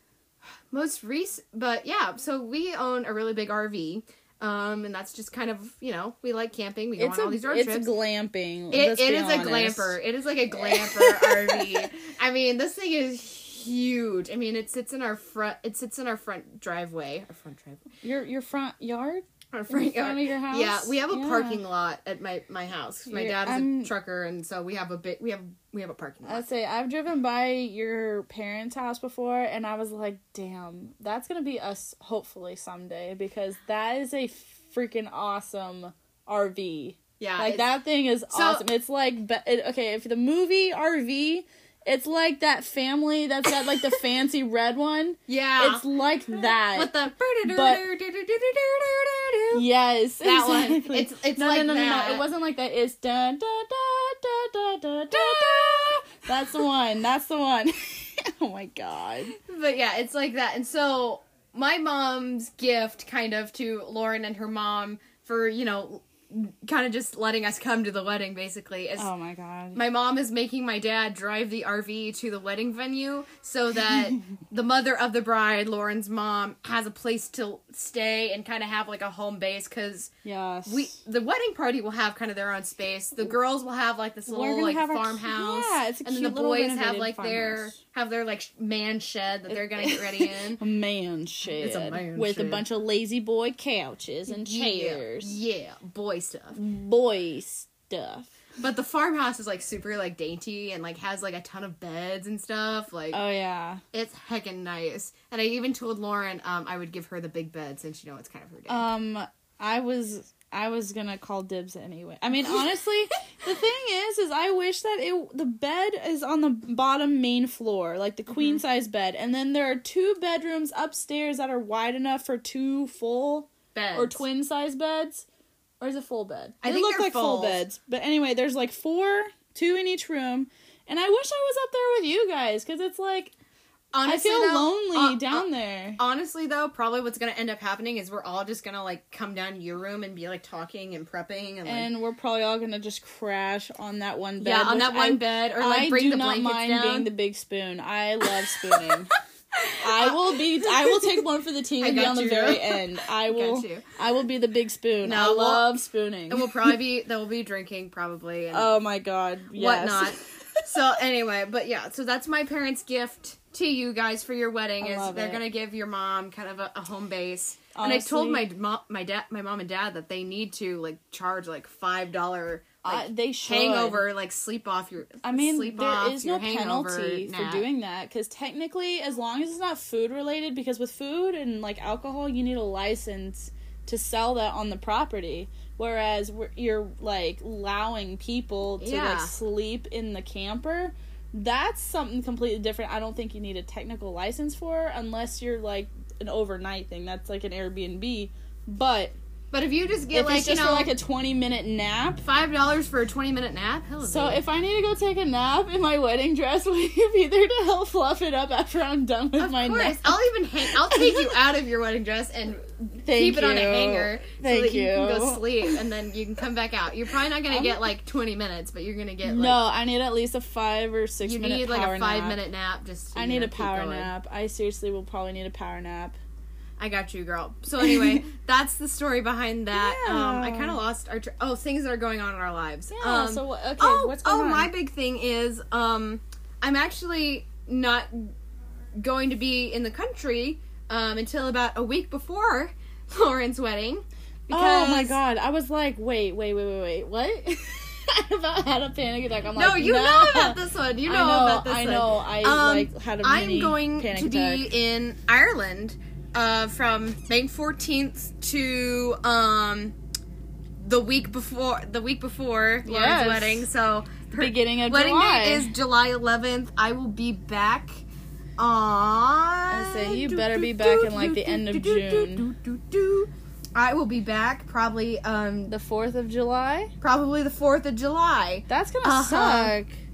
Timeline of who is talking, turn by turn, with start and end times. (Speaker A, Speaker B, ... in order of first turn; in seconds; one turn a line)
Speaker A: 0.7-7.9
Speaker B: 7.0-10.0
Speaker A: 8.7-17.9
Speaker B: 10.6-11.8
Speaker B: 18.0-21.6
Speaker A: 19.5-26.4
Speaker B: 23.1-23.9
Speaker B: 26.2-47.8
Speaker A: 37.2-37.7
Speaker A: 38.3-38.7
Speaker A: 45.3-49.6
Speaker B: 49.5-59.4
Speaker A: 50.2-52.3
Speaker A: 55.1-56.0
Speaker A: 59.4-69.1
Speaker B: 69.0-69.8
Speaker A: 69.7-80.1
Speaker B: 80.2-81.0
Speaker A: 80.7-90.6
Speaker B: 84.2-87.8
Speaker B: 89.5-95.3
Speaker A: 91.6-92.6
Speaker A: 94.3-96.6
Speaker B: 96.6-98.3
Speaker A: 98.6-103.2
Speaker B: 103.1-103.8
Speaker A: 103.9-108.9
Speaker B: 108.7-125.2
Speaker A: 118.3-118.6
Speaker A: 123.7-124.2
Speaker B: 125.8-133.3
Speaker A: 126.6-127.6
Speaker A: 133.9-135.4
Speaker B: 134.0-136.0
Speaker A: 136.0-141.9
Speaker B: 141.6-149.1
Speaker A: 144.4-147.1
Speaker A: 149.7-151.3
Speaker B: 149.8-156.7
Speaker A: 151.8-153.9
Speaker A: 155.0-155.8
Speaker A: 156.3-158.7
Speaker B: 158.5-160.7
Speaker A: 159.5-177.7
Speaker B: 164.8-165.4
Speaker B: 167.7-168.5
Speaker B: 172.8-174.1
Speaker B: 175.2-199.2
Speaker A: 188.8-189.3
Speaker A: 199.5-200.9
Speaker B: 200.1-202.2
Speaker A: 202.2-204.4
Speaker B: 204.0-211.3
Speaker A: 209.4-219.6
Speaker B: 213.0-215.7
Speaker B: 217.5-217.8
Speaker B: 219.2-222.4
Speaker A: 221.2-224.1
Speaker B: 223.1-226.2
Speaker A: 226.8-238.3
Speaker B: 229.7-230.8
Speaker B: 232.9-234.7
Speaker A: 238.9-245.2
Speaker B: 244.5-254.7
Speaker A: 249.6-259.9
Speaker A: 260.8-268.0
Speaker B: 262.9-263.7
Speaker B: 264.4-265.7
Speaker A: 268.6-275.7
Speaker B: 269.7-272.5
Speaker B: 275.7-276.9
Speaker A: 277.0-279.7
Speaker B: 278.7-280.0